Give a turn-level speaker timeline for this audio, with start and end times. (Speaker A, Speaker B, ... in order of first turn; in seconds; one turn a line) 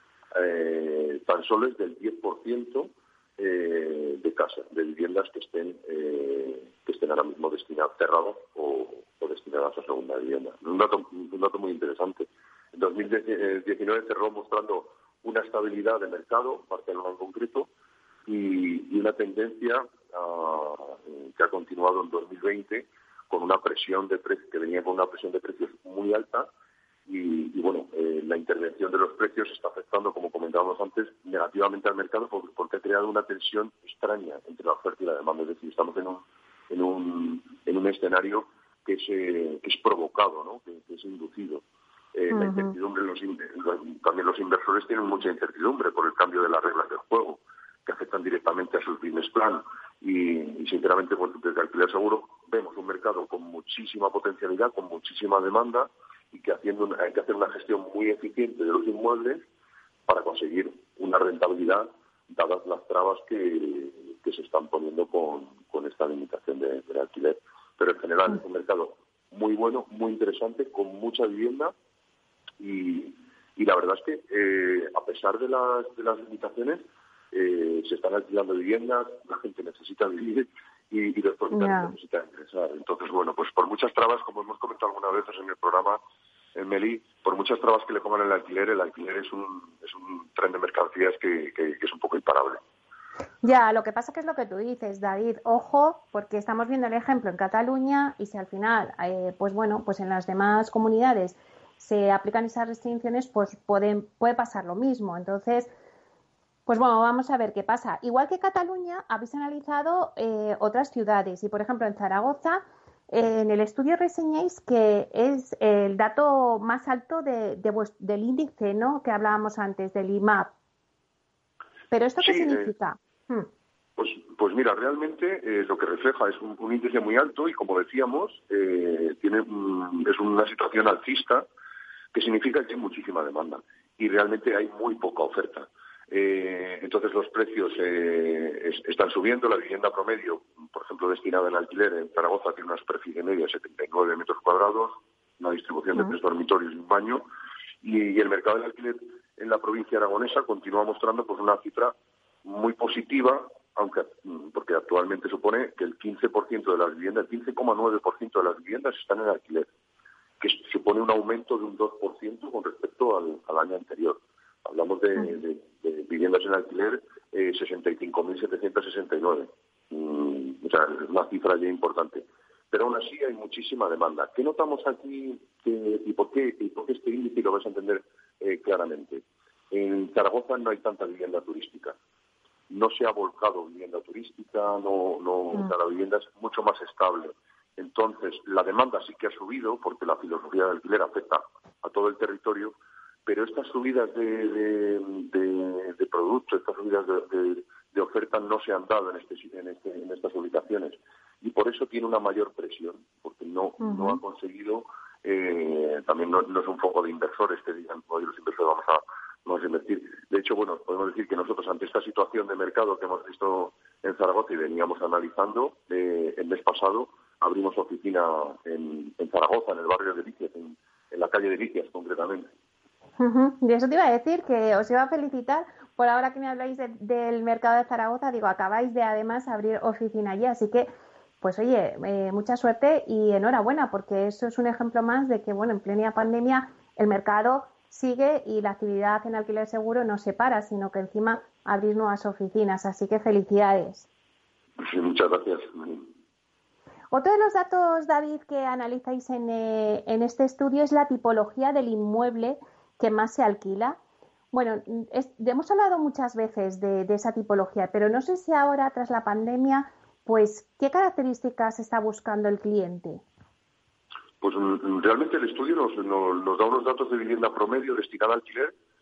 Speaker A: 0.3-17.7
Speaker A: 18.2-26.5
Speaker A: 27.1-59.4
Speaker B: 42.3-42.7
Speaker A: 60.1-71.7
Speaker A: 72.6-86.0
Speaker B: 81.5-81.9
Speaker A: 86.5-92.6
Speaker B: 93.4-105.7
Speaker B: 106.7-120.5
Speaker B: 121.9-123.5
Speaker A: 122.2-122.7
Speaker A: 124.0-131.4
Speaker A: 132.1-147.2
Speaker A: 147.8-159.7
Speaker A: 160.4-182.0
Speaker A: 182.7-222.5
Speaker B: 203.8-204.2
Speaker B: 223.2-230.9
Speaker B: 231.4-244.1
Speaker A: 244.8-246.1
Speaker B: 247.1-254.0
Speaker B: 254.5-263.2
Speaker A: 264.4-268.7